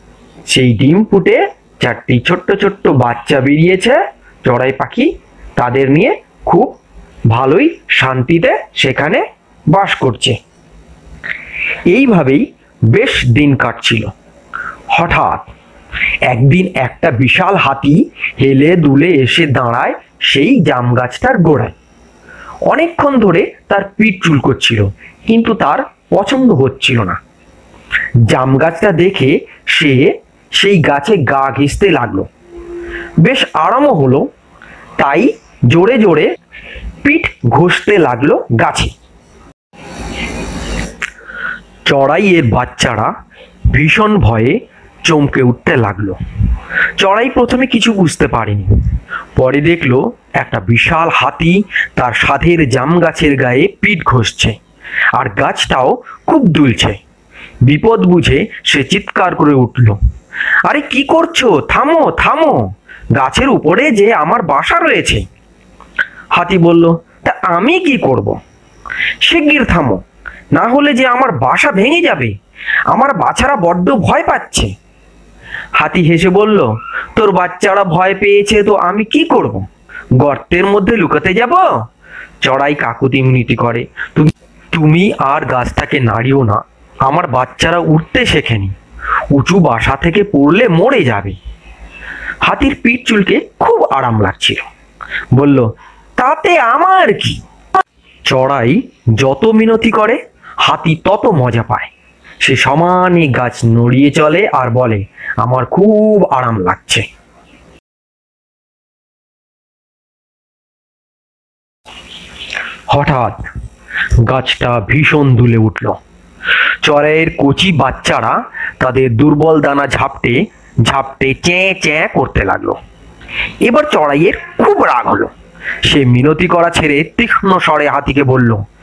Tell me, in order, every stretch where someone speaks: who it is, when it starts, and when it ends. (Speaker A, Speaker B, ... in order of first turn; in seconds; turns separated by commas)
Speaker A: 0.4-6.7, Speaker A: 7.3-10.4, Speaker A: 11.9-14.1, Speaker A: 14.9-15.5, Speaker A: 16.2-21.7, Speaker A: 22.7-27.2, Speaker A: 28.2-32.3, Speaker A: 33.2-34.3, Speaker A: 35.0-36.3, Speaker A: 37.0-38.9, Speaker A: 41.8-43.1, Speaker A: 43.7-46.2, Speaker A: 47.0-48.7, Speaker A: 49.4-54.6, Speaker A: 55.1-57.0, Speaker A: 57.6-60.0, Speaker A: 60.6-65.2, Speaker A: 66.3-68.4, Speaker A: 69.2-70.0, Speaker A: 70.5-72.3, Speaker A: 72.9-74.7, Speaker A: 75.8-79.7, Speaker A: 80.2-81.8, Speaker A: 82.4-88.7, Speaker A: 89.3-91.4, Speaker A: 92.4-94.7, Speaker A: 95.3-97.4, Speaker A: 98.2-101.9, Speaker A: 102.4-107.0, Speaker A: 112.9-113.5, Speaker A: 114.2-116.0, Speaker A: 116.8-122.8, Speaker A: 123.6-125.3, Speaker A: 125.8-128.6